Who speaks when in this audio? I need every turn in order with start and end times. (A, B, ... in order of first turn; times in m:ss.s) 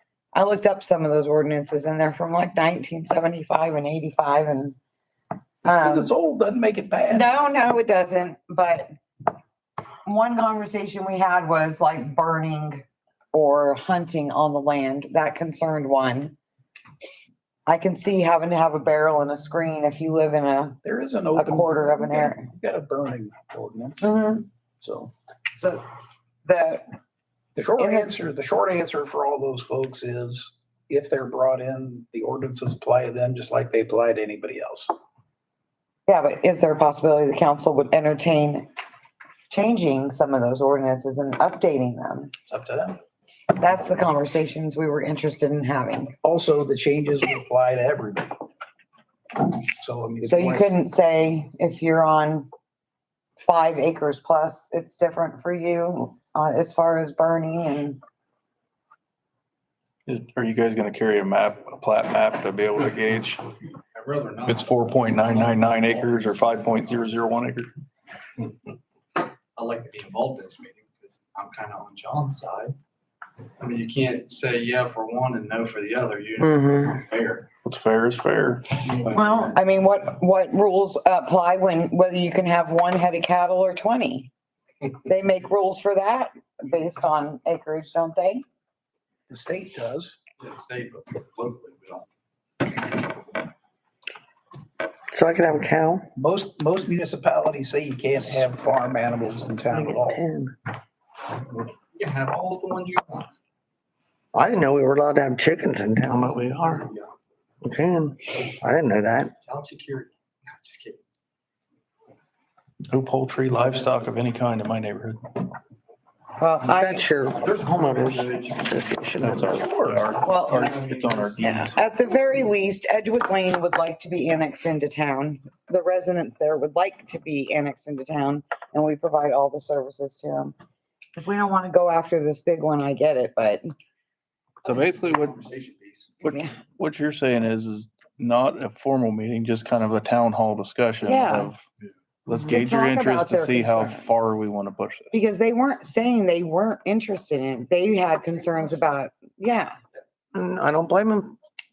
0:00.3-0:04.8 A
0:05.6-0:07.3 B
0:05.6-0:06.1 A
0:07.1-0:08.9 A
0:10.0-0:16.4 A
0:17.6-0:20.8 A
0:20.8-0:24.1 B
0:21.4-0:22.5 A
0:24.0-0:24.4 A
0:24.8-0:25.1 B
0:25.5-0:25.8 A
0:26.4-0:26.8 A
0:27.6-0:34.9 B
0:27.8-0:28.1 A
0:36.1-0:38.7 A
0:39.5-0:42.3 A
0:42.5-0:43.0 B
0:43.6-0:46.1 A
0:46.2-0:48.4 B
0:49.8-0:50.7 B
0:50.2-0:52.5 A
0:53.4-0:58.0 A
1:00.1-1:03.5 C
1:03.9-1:07.1 D
1:04.5-1:07.7 C
1:09.5-1:12.8 D
1:13.6-1:17.5 D
1:16.4-1:17.0 E
1:17.6-1:18.8 C
1:18.8-1:19.6 D
1:19.0-1:24.3 A
1:25.0-1:28.4 A
1:29.3-1:30.2 B
1:30.4-1:32.0 D
1:35.1-1:36.1 E
1:36.2-1:40.2 B
1:39.7-1:40.5 E
1:41.5-1:43.3 D
1:44.3-1:46.8 E
1:46.1-1:47.1 D
1:47.6-1:49.3 E
1:49.4-1:51.0 D
1:52.9-1:55.2 C
1:56.4-1:57.0 A
1:56.7-1:59.7 E
1:57.4-1:59.2 D
1:59.2-2:01.8 C
1:59.6-2:00.0 B
2:00.2-2:00.8 A
2:00.3-2:01.4 D
2:01.4-2:10.5 A
2:11.1-2:13.6 A
2:14.6-2:15.4 C
2:14.6-2:16.1 D
2:16.2-2:21.6 C
2:16.3-2:16.6 A
2:21.0-2:21.5 A
2:22.3-2:25.1 C
2:22.3-2:24.1 A
2:25.1-2:29.8 A
2:30.3-2:31.4 E